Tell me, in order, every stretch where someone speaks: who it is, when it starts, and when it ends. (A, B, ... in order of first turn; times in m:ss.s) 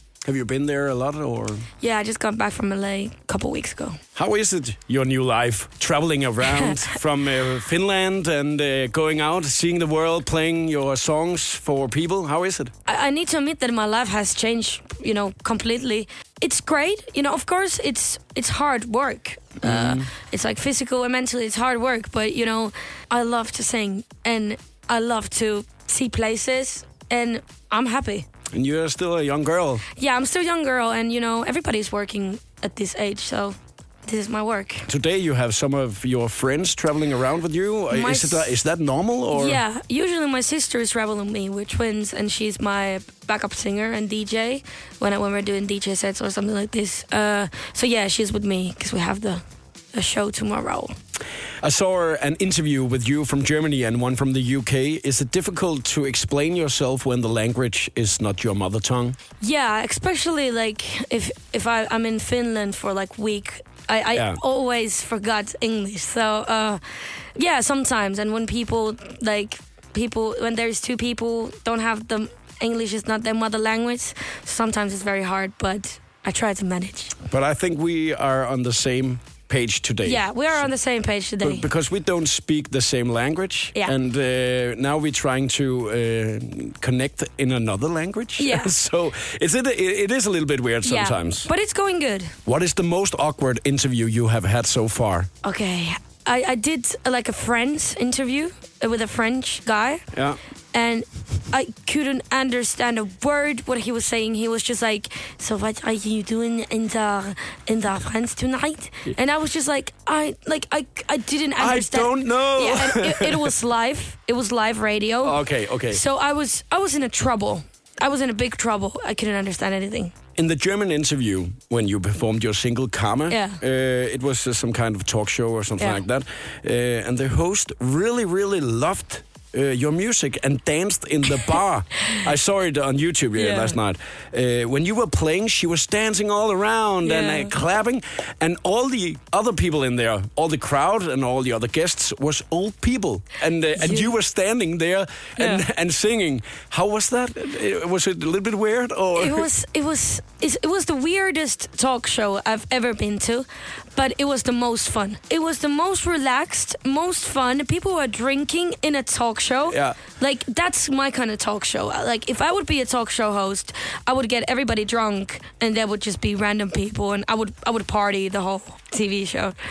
0:00.2-0:01.7 A
0:01.8-0:04.0 B
0:04.1-0:12.7 A
0:06.5-0:06.9 B
0:12.8-0:28.3 B
0:19.6-0:20.1 A
0:28.5-0:29.8 A
0:30.0-0:34.9 B
0:34.8-0:39.6 A
0:37.9-0:38.6 B
0:39.3-0:50.9 B
0:51.6-0:59.2 A
0:59.4-1:17.1 B
1:04.1-1:04.4 A
1:17.2-1:20.6 A
1:20.0-1:21.7 B
1:21.4-1:31.5 A
1:28.4-1:28.7 B
1:30.8-1:32.3 B
1:32.4-1:35.3 A
1:35.4-1:40.0 B
1:40.1-1:40.4 A
1:40.7-2:00.1 B
1:51.6-1:53.5 A
1:55.2-1:56.0 A
2:00.4-2:29.5 A
2:03.3-2:03.6 B
2:13.4-2:13.8 B
2:17.0-2:17.6 B
2:23.8-2:24.1 B
2:25.4-2:25.6 B
2:29.2-2:49.6 B
2:39.7-2:40.0 A